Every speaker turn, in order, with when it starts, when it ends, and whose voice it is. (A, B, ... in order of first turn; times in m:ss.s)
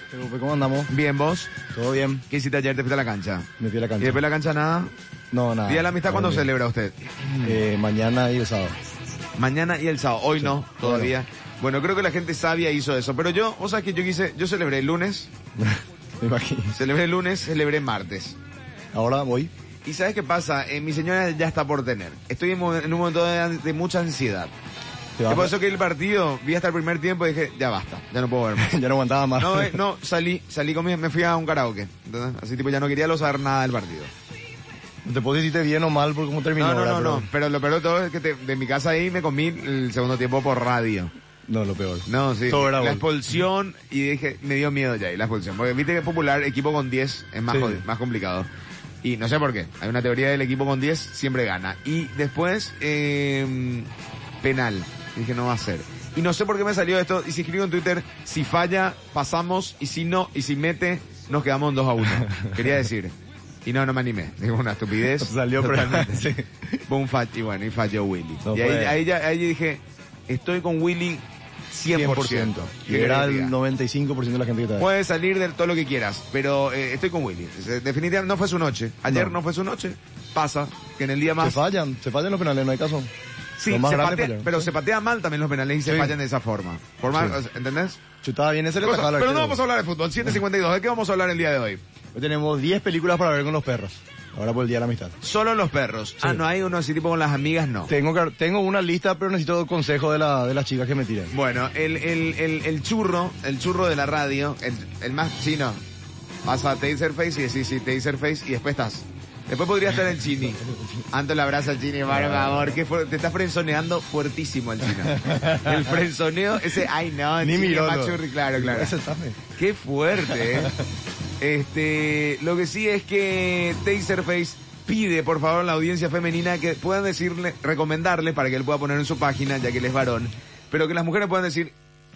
0:00.1-0:00.9 A
0:00.9-0:01.5 B
0:01.6-0:02.2 A
0:02.3-0:03.5 B
0:03.6-0:04.2 A
0:04.0-0:04.9 B
0:05.3-0:06.5 A
0:05.6-0:07.0 B
0:07.4-0:08.8 A
0:09.4-0:15.3 B
0:10.4-0:11.1 A
0:15.6-0:16.8 A
0:16.7-0:18.4 B
0:18.9-0:19.5 A
0:19.8-0:24.5 B
0:25.2-0:25.6 A
0:25.3-0:28.8 B
0:28.6-0:29.8 A
0:29.4-0:34.1 B
0:35.0-0:37.3 A
0:36.6-0:41.1 B
0:41.5-0:43.1 A
0:42.1-0:48.5 B
0:47.5-0:47.8 A
0:49.0-0:53.9 B
0:54.4-1:03.1 B
1:02.0-1:02.7 A
1:03.6-1:06.3 B
1:05.0-1:06.8 A
1:06.9-1:13.5 B
1:08.4-1:09.0 A
1:11.9-1:14.9 A
1:14.8-1:21.6 B
1:19.1-1:19.4 A
1:21.4-1:23.1 A
1:23.6-1:28.0 B
1:23.7-1:24.7 A
1:25.8-1:26.2 A
1:27.1-1:27.4 A
1:28.2-1:29.6 A
1:28.8-1:31.8 B
1:32.2-1:35.2 A
1:35.2-1:37.9 B
1:37.9-1:41.3 A
1:41.3-1:45.8 B
1:46.5-1:50.6 B
1:50.6-1:51.0 A
1:51.1-1:59.0 B
1:52.1-1:52.8 A
1:55.1-1:56.0 A
1:57.4-1:59.4 A
1:59.5-2:00.7 B
2:00.2-2:00.8 A
2:01.4-2:11.7 B